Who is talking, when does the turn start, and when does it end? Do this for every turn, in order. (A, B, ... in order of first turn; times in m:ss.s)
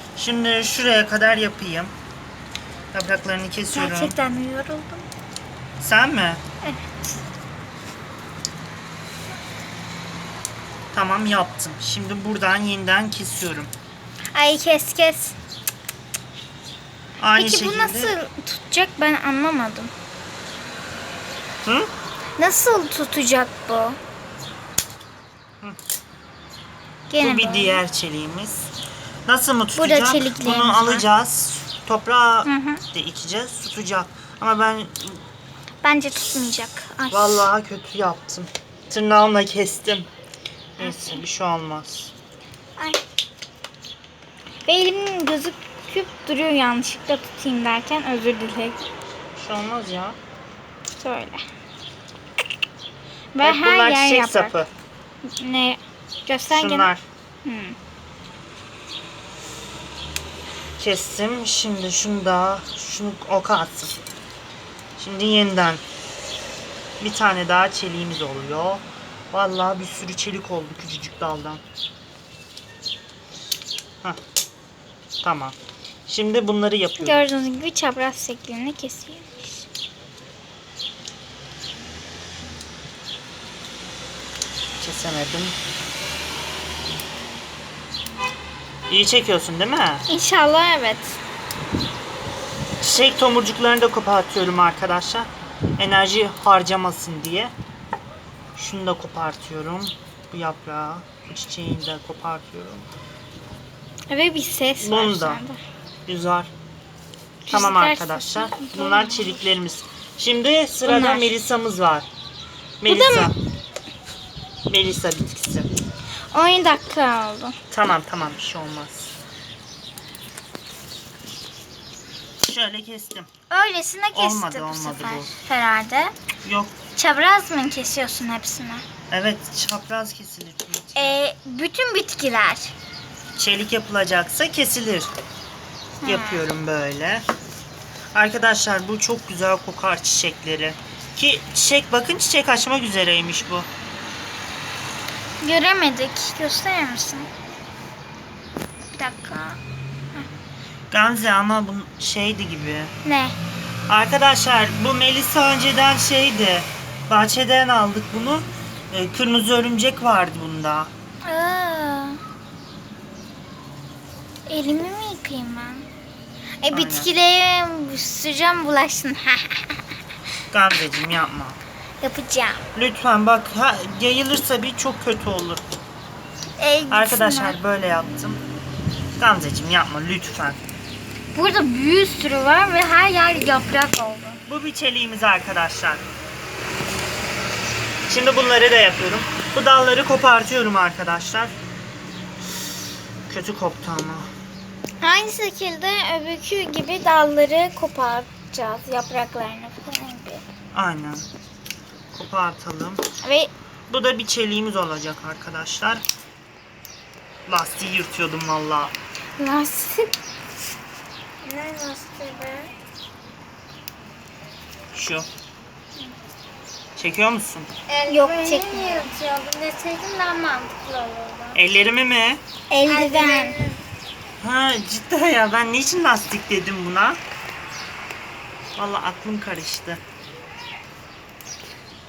0:00.2-0:01.9 A
0:02.9-0:04.2 A
0:03.7-0:05.1 B
0:05.8-0:06.4 A
0:06.6-0:07.1 B
0:10.9-0:13.7 A
0:14.3-0:15.4 B
0:17.2-0:18.2 A
0:17.3-0:19.9 B
0:21.6-0:21.9 A
0:22.4-0:24.0 B
0:27.1-0:27.8 B
0:27.2-0:28.7 A
0:29.3-0:35.2 A
0:29.8-0:31.0 B
0:32.4-0:32.8 B
0:35.8-0:37.5 B
0:37.1-0:40.1 A
0:40.8-0:42.1 A
0:40.8-0:41.2 B
0:44.6-0:48.8 B
0:49.4-0:50.2 A
0:51.0-0:51.4 B
0:53.3-0:54.5 B
0:53.4-0:54.7 A
0:55.2-0:56.9 B
0:56.5-0:57.0 A
0:57.4-0:57.8 B
1:00.8-1:04.0 A
1:05.0-1:05.8 A
1:07.0-1:11.6 A
1:15.2-1:15.6 A
1:16.1-1:17.3 A
1:17.0-1:19.7 B
1:24.8-1:25.6 A
1:28.9-1:30.0 A
1:30.1-1:31.2 B
1:32.8-1:37.5 A
1:38.5-1:42.9 A
1:44.1-1:45.6 B
1:44.8-1:45.4 A
1:46.1-1:46.5 A
1:47.4-1:49.4 B
1:47.5-1:52.1 A
1:50.8-1:51.3 B
1:52.8-1:53.4 A
1:52.8-1:53.3 B
1:54.7-1:55.7 A
1:56.3-1:57.6 B
1:57.7-1:59.2 A
2:02.4-2:03.3 A
2:03.5-2:06.1 B
2:04.1-2:05.3 A
2:06.4-2:06.8 A
2:06.9-2:08.8 B
2:09.1-2:11.2 A
2:11.0-2:12.7 B
2:13.3-2:15.1 A
2:16.0-2:16.4 B
2:16.0-2:17.2 A
2:18.1-2:23.7 A
2:25.4-2:27.3 B
2:28.9-2:29.6 B
2:30.9-2:32.9 A
2:33.0-2:33.4 B
2:33.9-2:40.9 A
2:41.2-2:42.2 B
2:44.5-2:45.9 B
2:46.6-2:49.8 B
2:46.7-2:47.1 A
2:50.5-2:51.6 A
2:52.0-2:52.6 B
2:52.7-2:55.6 A
2:56.6-2:57.6 B
2:56.9-2:58.4 A
2:59.2-3:00.6 A
3:01.3-3:04.4 B
3:04.5-3:06.0 A
3:08.1-3:11.6 A
3:13.3-3:14.3 A
3:15.0-3:20.4 B
3:20.7-3:21.3 A
3:22.1-3:23.0 A
3:23.2-3:23.5 B
3:23.9-3:26.0 A
3:27.4-3:28.9 A
3:29.4-3:30.1 B
3:31.4-3:32.7 B
3:34.9-3:35.3 A
3:37.0-3:37.7 A
3:37.9-3:41.6 C
3:38.0-3:39.1 B
3:41.5-3:42.4 A
3:42.7-3:43.6 B
3:42.9-3:43.8 C
3:44.4-3:47.2 A
3:48.8-3:50.0 A